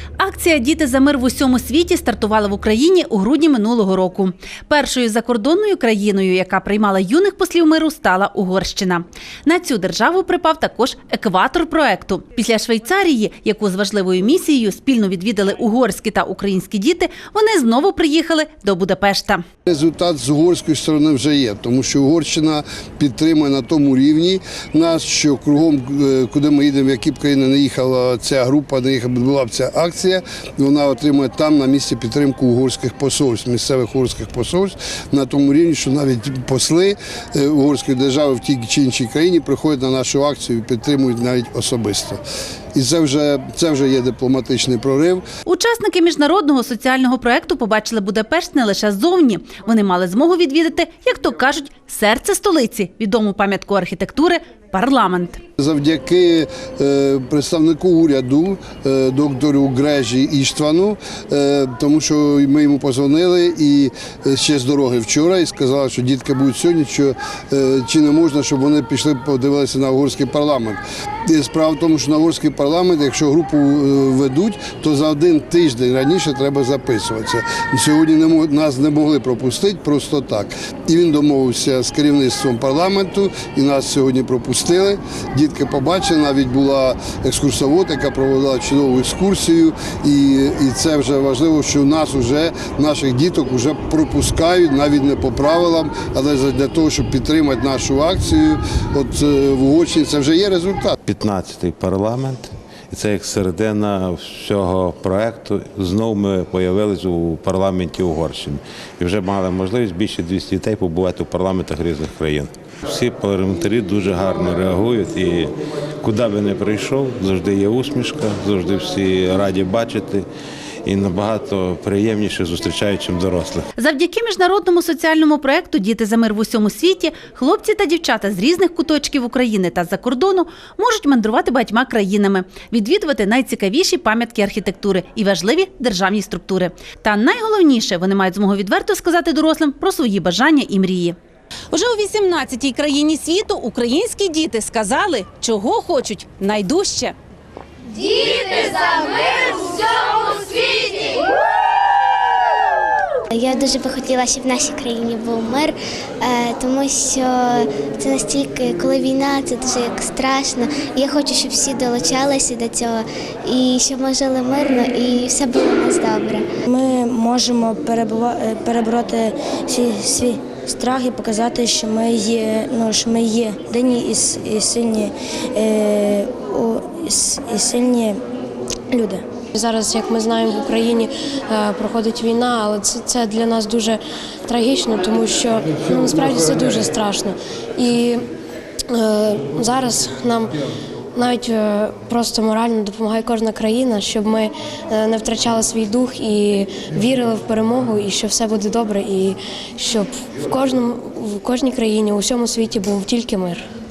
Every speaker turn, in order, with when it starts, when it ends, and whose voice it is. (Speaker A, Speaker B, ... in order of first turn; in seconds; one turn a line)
Speaker A: 0.2-19.4
Speaker B: 19.6-42.2
Speaker B: 42.7-45.2
Speaker A: 45.5-55.4
Speaker B: 55.6-100.9
Speaker C: 101.0-120.2
Speaker C: 120.8-123.7
Speaker A: 123.8-141.1
Speaker A: 141.7-147.1
Speaker D: 153.3-166.4
Speaker E: 166.7-178.1
Speaker F: 179.5-188.2
Speaker F: 188.9-190.5
Speaker F: 191.1-203.6